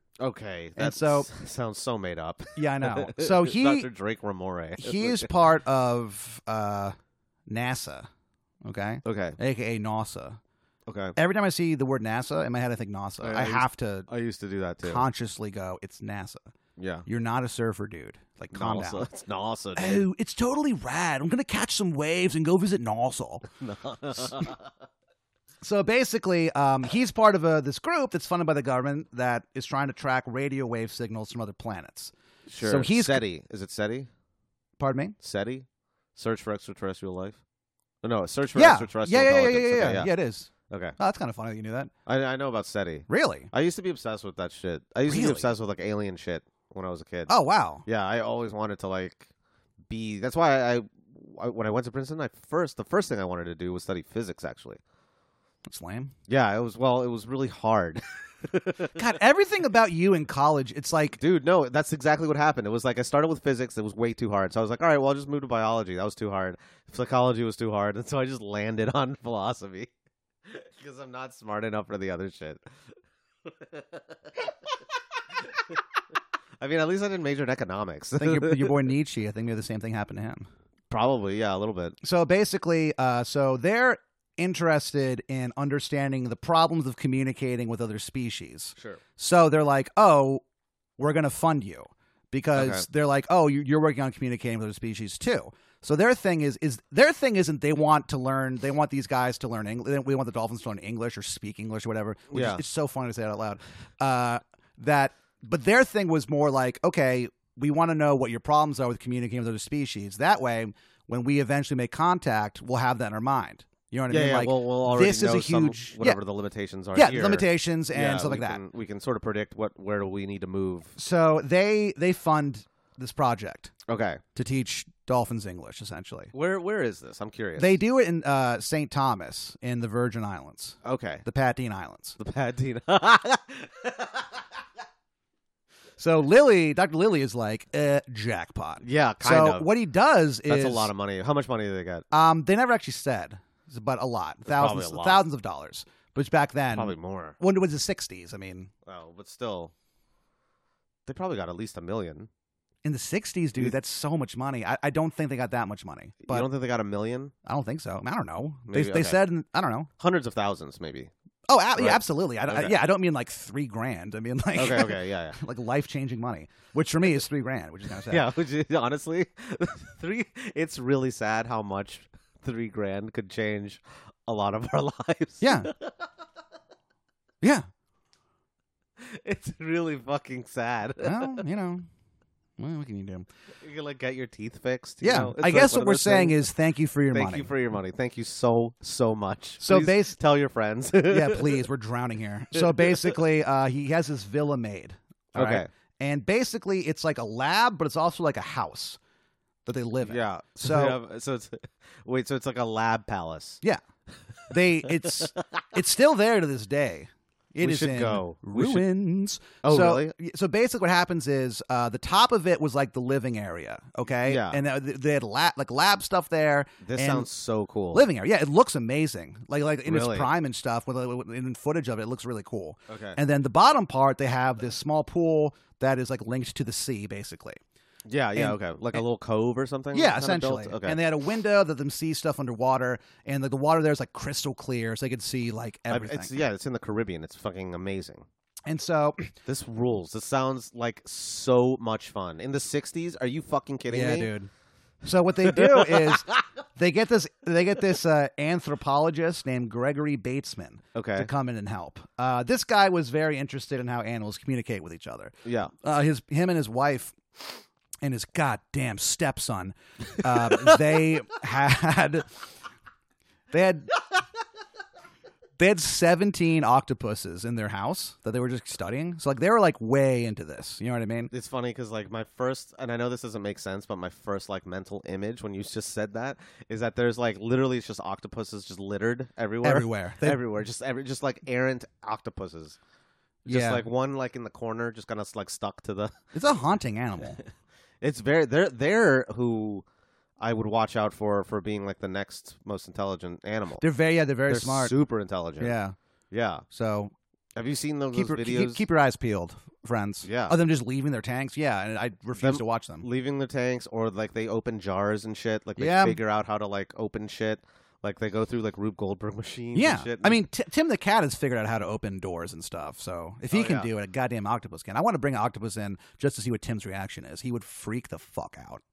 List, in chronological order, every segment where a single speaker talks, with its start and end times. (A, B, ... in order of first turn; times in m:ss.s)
0:00.2-0:05.3 A
0:00.8-0:01.3 B
0:02.6-0:03.9 B
0:04.8-0:07.0 B
0:07.5-0:08.1 B
0:08.6-0:10.4 B
0:09.0-0:09.4 A
0:10.9-0:11.2 A
0:11.2-0:14.1 B
0:13.2-0:15.0 A
0:14.8-0:16.5 B
0:16.8-0:17.1 A
0:17.1-0:19.1 B
0:18.5-0:20.1 A
0:19.8-0:23.4 B
0:23.6-0:24.7 A
0:25.6-0:33.2 B
0:32.5-0:34.1 A
0:34.8-0:35.2 B
0:35.2-0:37.4 A
0:38.0-0:40.1 A
0:38.5-0:41.9 B
0:40.7-0:41.0 A
0:42.1-0:47.3 A
0:43.1-0:43.5 B
0:45.1-0:45.5 B
0:47.3-0:47.9 B
0:47.9-0:49.3 A
0:49.9-0:54.8 A
0:55.7-0:56.1 B
0:56.3-0:58.9 A
0:59.0-1:01.2 B
1:01.2-1:09.9 A
1:10.4-1:12.6 A
1:13.4-1:14.8 A
1:15.3-1:15.8 A
1:16.6-1:18.8 A
1:18.2-1:20.5 B
1:20.9-1:22.0 A
1:22.0-1:30.4 B
1:31.0-1:56.2 B
1:32.5-1:32.9 A
1:42.3-1:42.6 A
1:54.1-2:00.9 A
1:56.9-1:58.6 B
2:01.0-2:03.7 B
2:03.9-2:04.2 A
2:04.4-2:06.3 B
2:06.3-2:07.8 A
2:07.6-2:12.2 B
2:10.8-2:11.2 A
2:12.2-2:14.5 A
2:16.0-2:20.9 B
2:18.8-2:19.7 A
2:20.5-2:22.1 A
2:22.1-2:28.7 B
2:24.5-2:25.2 A
2:26.7-2:27.4 A
2:28.8-2:29.7 A
2:31.1-2:32.3 A
2:32.8-2:36.5 B
2:36.2-2:37.3 A
2:37.5-2:39.9 B
2:38.7-2:39.2 A
2:40.0-2:41.1 A
2:41.5-2:48.3 B
2:41.8-2:42.7 A
2:44.6-2:45.4 A
2:48.1-2:56.1 A
2:55.4-2:55.7 B
2:57.4-2:57.7 B
2:59.0-3:01.5 A
3:01.0-3:01.9 B
3:02.6-3:03.3 B
3:03.6-3:06.4 A
3:05.0-3:07.5 B
3:07.1-3:11.7 A
3:09.6-3:10.2 B
3:11.1-3:19.0 B
3:12.5-3:13.2 A
3:15.4-3:15.7 A
3:19.6-3:21.0 B
3:20.0-3:23.6 A
3:24.5-3:37.3 B
3:27.6-3:28.9 A
3:29.6-3:30.1 A
3:34.2-3:34.6 A
3:36.8-3:38.1 A
3:37.9-3:47.6 B
3:39.8-3:40.3 A
3:42.9-3:43.2 A
3:48.1-3:51.0 A
3:48.4-3:49.0 B
3:49.9-3:56.4 B
3:55.9-3:58.3 A
3:58.7-3:59.3 B
3:59.5-4:04.3 A
4:03.9-4:04.5 B
4:05.0-4:17.5 B
4:05.5-4:06.4 A
4:11.0-4:11.3 A
4:15.4-4:15.7 A
4:18.0-4:22.4 B
4:20.4-4:20.7 A
4:23.5-4:23.9 B
4:25.6-4:31.3 B
4:31.3-4:42.8 A
4:39.6-4:40.4 B
4:43.4-4:43.8 B
4:43.5-4:46.2 A
4:46.3-4:47.4 B
4:48.0-4:49.8 A
4:50.4-4:53.8 A
4:53.8-4:54.9 B
4:54.5-4:55.8 A
4:55.6-4:56.0 B
4:56.3-4:56.6 A
4:56.7-4:57.1 B
4:57.6-4:58.8 A
4:58.1-5:03.1 B
5:00.2-5:00.6 A
5:02.4-5:10.4 A
5:05.8-5:06.2 B
5:09.7-5:18.8 B
5:13.5-5:13.9 A